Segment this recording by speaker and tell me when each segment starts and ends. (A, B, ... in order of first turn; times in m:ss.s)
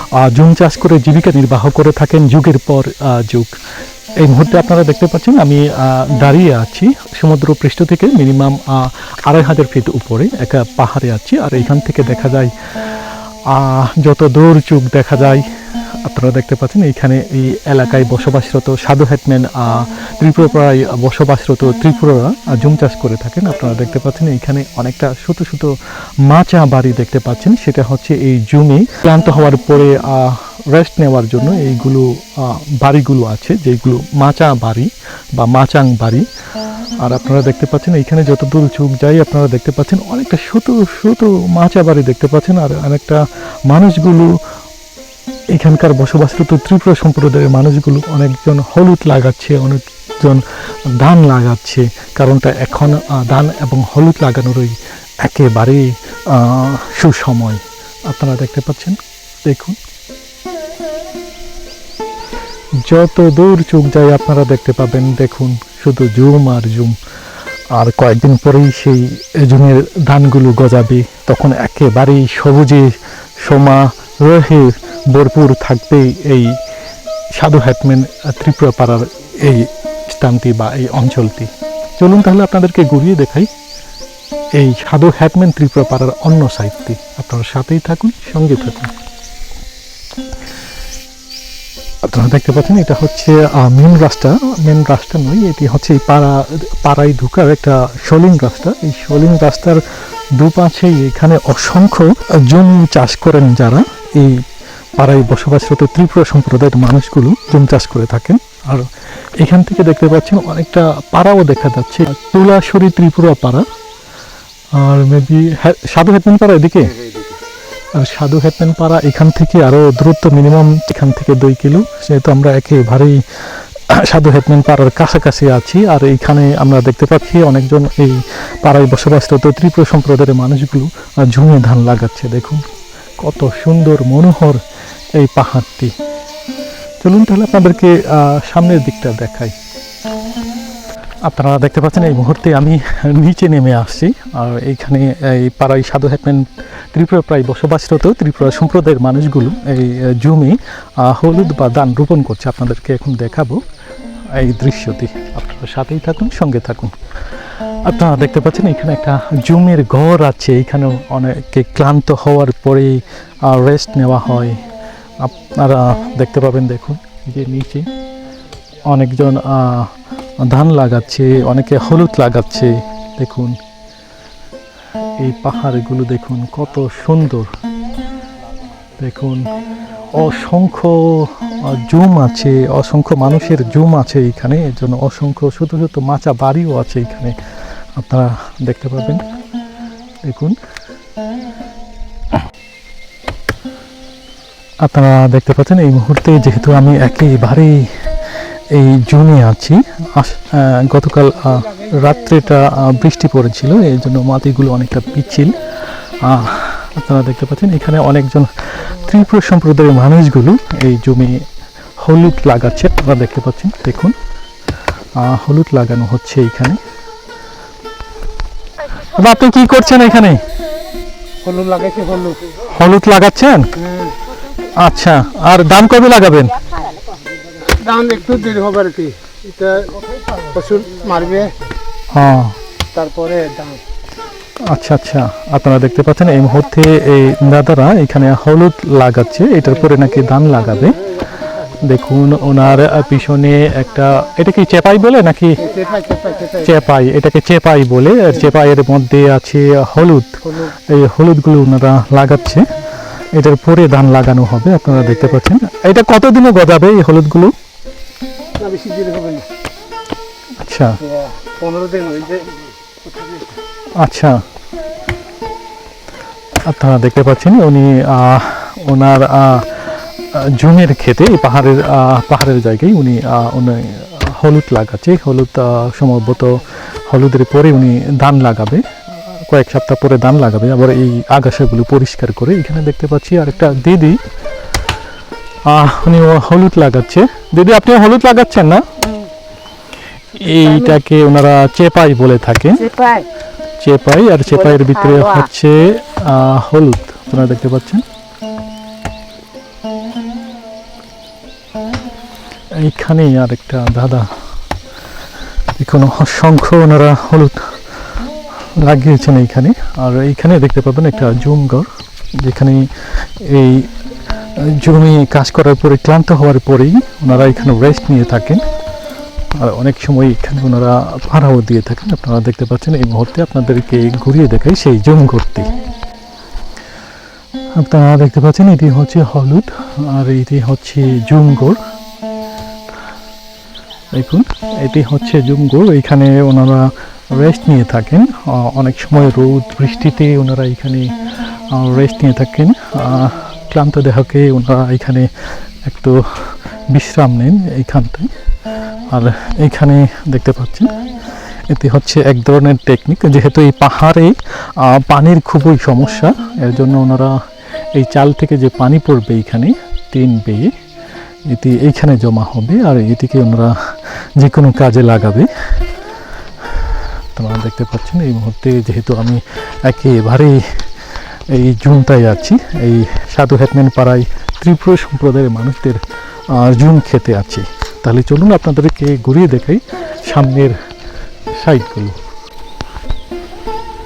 0:00.2-0:03.5 A
0:04.2-0:12.5 A
0:13.5-0:15.4 A
0:16.0-0:25.7 A
0:26.2-0:36.3 A
0:37.0-0:44.3 A
0:45.5-0:59.8 A
1:02.8-1:07.0 A
1:07.7-1:16.6 A
1:17.4-1:23.5 A
1:24.6-1:28.9 A
1:32.0-1:39.8 A
1:40.4-1:44.4 A
1:45.0-1:48.9 A
1:49.4-1:53.6 A
1:54.7-1:57.2 A
1:57.9-2:03.2 A
2:03.8-2:12.6 A
2:13.2-2:14.6 A
2:15.2-2:15.9 A
2:17.0-2:19.5 A
2:21.2-2:33.6 A
2:34.3-2:36.9 A
2:37.8-2:44.6 A
2:45.2-2:47.9 A
2:48.9-2:53.6 A
2:55.2-2:57.5 A
2:59.0-2:59.5 A
3:00.1-3:07.4 A
3:08.0-3:09.2 A
3:10.2-3:10.6 A
3:14.8-3:17.9 A
3:18.7-3:25.6 A
3:26.2-3:31.4 A
3:32.0-3:34.1 A
3:35.2-3:36.8 A
3:38.9-3:40.4 A
3:41.4-3:42.6 B
3:42.6-3:43.7 A
3:43.8-3:44.2 B
3:44.6-3:46.6 A
3:47.6-3:51.6 B
3:52.1-3:52.6 A
3:52.9-3:53.8 B
3:54.6-4:01.0 A
4:01.5-4:05.6 A
4:05.6-4:06.7 B
4:06.6-4:17.5 A
4:15.0-4:15.4 B
4:18.6-4:19.5 B
4:20.6-4:21.0 A
4:21.0-4:22.6 B
4:23.1-4:23.5 B
4:24.0-4:24.4 A
4:26.6-4:44.2 A
4:45.6-4:48.9 A
4:49.0-4:49.3 C
4:50.3-4:52.9 A
4:50.7-4:51.0 C
4:52.8-4:53.3 C
4:53.8-4:58.0 A
4:54.5-4:55.5 C
5:02.7-5:04.3 A
5:05.8-5:07.7 A
5:08.8-5:13.9 A
5:14.6-5:18.6 A
5:19.6-5:25.7 A
5:27.8-5:31.8 A
5:34.1-5:41.1 A
5:41.7-5:45.3 A
5:45.8-5:48.3 A
5:49.1-5:50.9 A
5:51.7-5:57.4 A
5:57.9-6:00.7 A
6:01.4-6:05.5 A
6:07.3-6:10.8 A
6:11.5-6:20.8 A
6:21.6-6:22.2 A